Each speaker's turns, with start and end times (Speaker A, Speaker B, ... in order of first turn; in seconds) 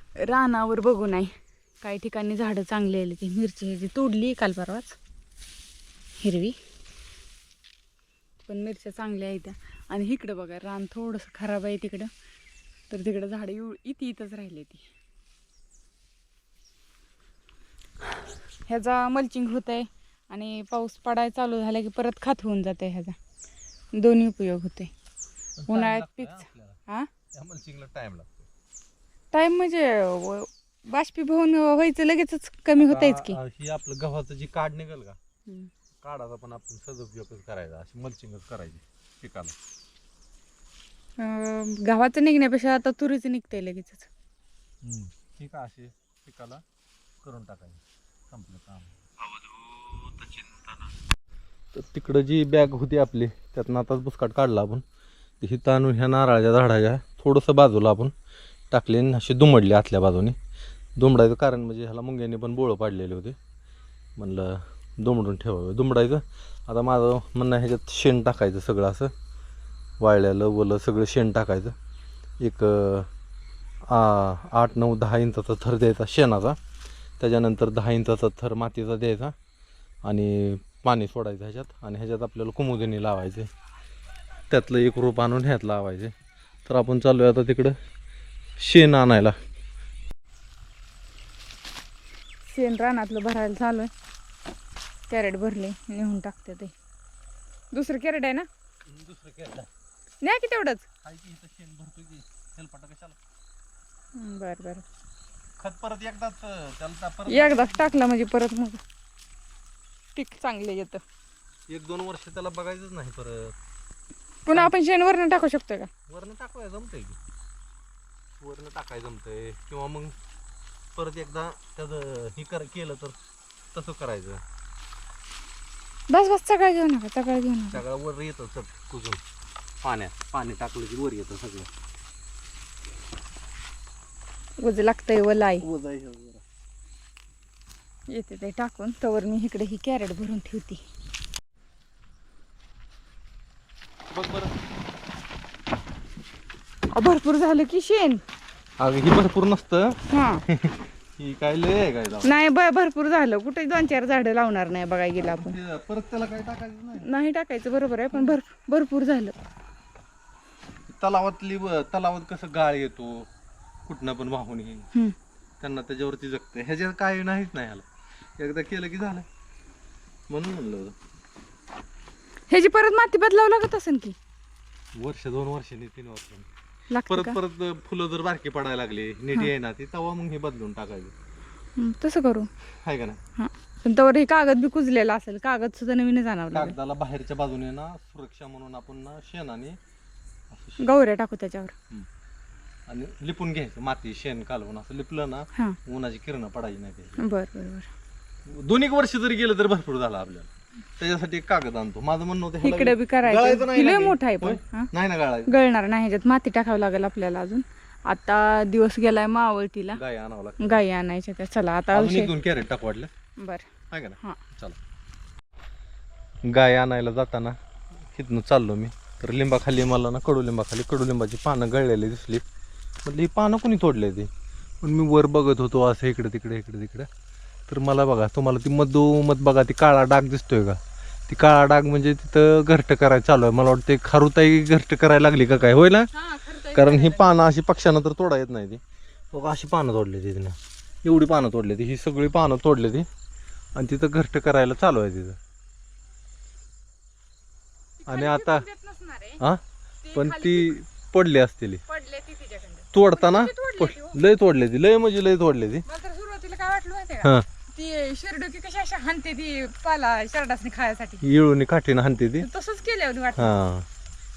Speaker A: 0.2-5.0, 6.2-6.6, 8.4-12.1, 12.9-14.9, 18.7-23.2, 24.0-24.9, 25.7-27.1, 29.3-33.4, 41.2-44.1, 92.5-93.9, 95.1-96.7, 97.7-98.5, 100.2-100.9, 104.2-104.8, 107.3-108.8, 110.2-111.0, 114.5-115.9, 126.1-127.8, 134.6-135.7, 138.1-140.8, 146.9-148.2, 150.1-150.4, 152.2-155.6, 157.0-159.3, 172.5-174.2, 176.9-177.4, 181.8-182.5, 183.4-186.8, 190.8-191.7, 197.2-197.9, 202.6-204.9, 205.5-210.0, 210.6-212.3, 213.4-214.4, 236.1-237.4, 248.0-249.4, 250.1-250.8, 251.9-254.2, 255.8-261.2, 262.4-263.5
Speaker B: 25.6-26.8, 27.3-28.5, 32.8-35.2, 36.0-39.5, 44.8-46.6, 47.2-50.8, 51.7-54.8, 55.4-58.1, 58.7-60.4, 61.0-63.4, 64.2-69.1, 70.0-71.8, 72.4-73.1, 73.9-76.6, 77.2-79.3, 80.0-83.5, 84.5-86.1, 86.7-87.8, 88.6-89.4, 98.9-99.7, 101.0-103.2, 105.6-108.0, 111.7-113.5, 116.1-117.2, 118.4-120.2, 121.0-123.2, 123.7-124.4, 127.7-129.2, 129.8-131.7, 135.6-136.4, 144.1-144.5, 148.8-152.3, 155.2-157.1, 160.9-163.3, 163.9-164.9, 165.6-167.9, 168.4-169.3, 170.3-171.0, 174.9-176.5, 177.1-181.1, 182.8-183.2, 186.5-189.8, 190.5-190.8, 192.9-197.2, 198.5-205.5, 209.9-210.8, 211.9-213.1, 213.9-214.8, 216.5-217.6, 218.1-222.4, 223.1-224.3, 224.8-227.1, 227.7-236.1, 236.6-243.1, 243.8-245.4, 248.1-248.7, 250.1-251.8, 252.9-255.8, 261.2-262.5, 263.4-263.9